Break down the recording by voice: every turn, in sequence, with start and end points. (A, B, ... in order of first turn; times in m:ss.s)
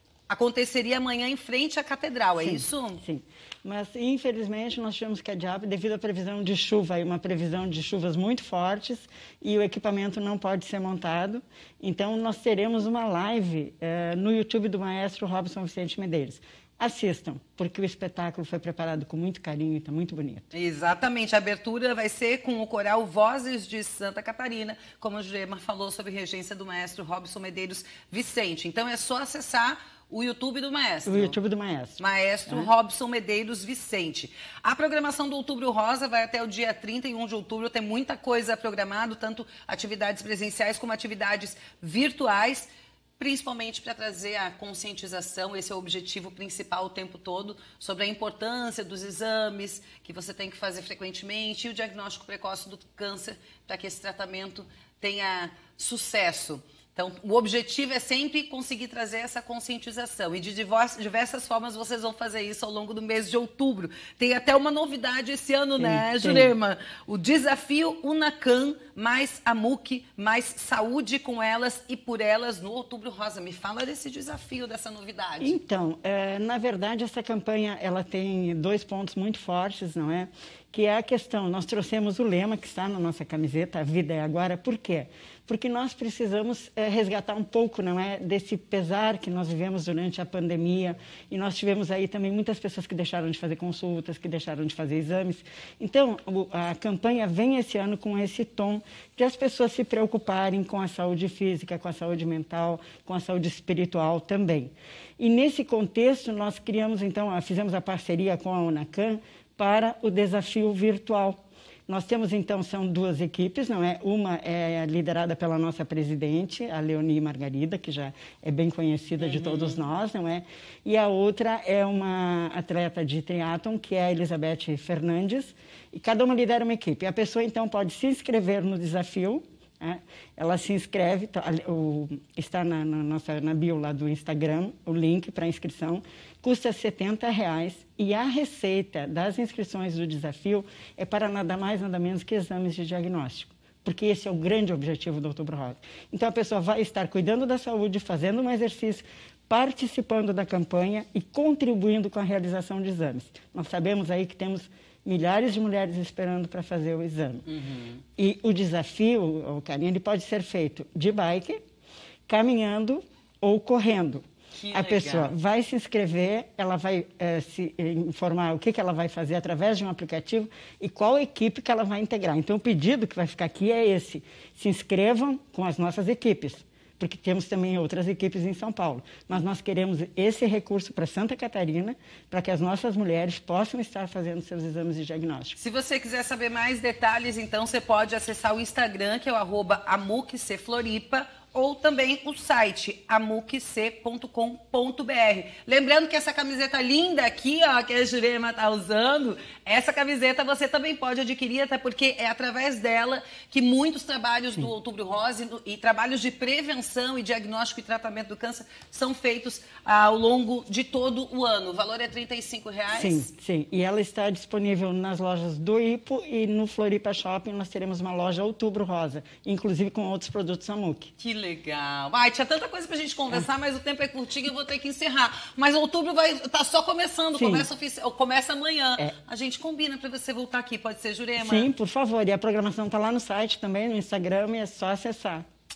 0:00.3-0:03.0 A
0:02.4-0:20.5 B
0:20.5-0:31.4 A
0:31.1-0:32.7 B
0:32.0-1:15.6 A
1:05.8-1:06.5 B
1:15.4-2:37.5 B
1:59.2-1:59.8 A
2:37.5-2:38.0 A
2:38.2-2:41.6 B
2:42.3-3:05.6 B
2:44.6-2:45.3 A
3:05.6-3:33.3 A
3:32.9-3:41.1 B
3:41.2-3:51.7 A
3:47.4-3:47.7 B
3:51.4-3:55.4 B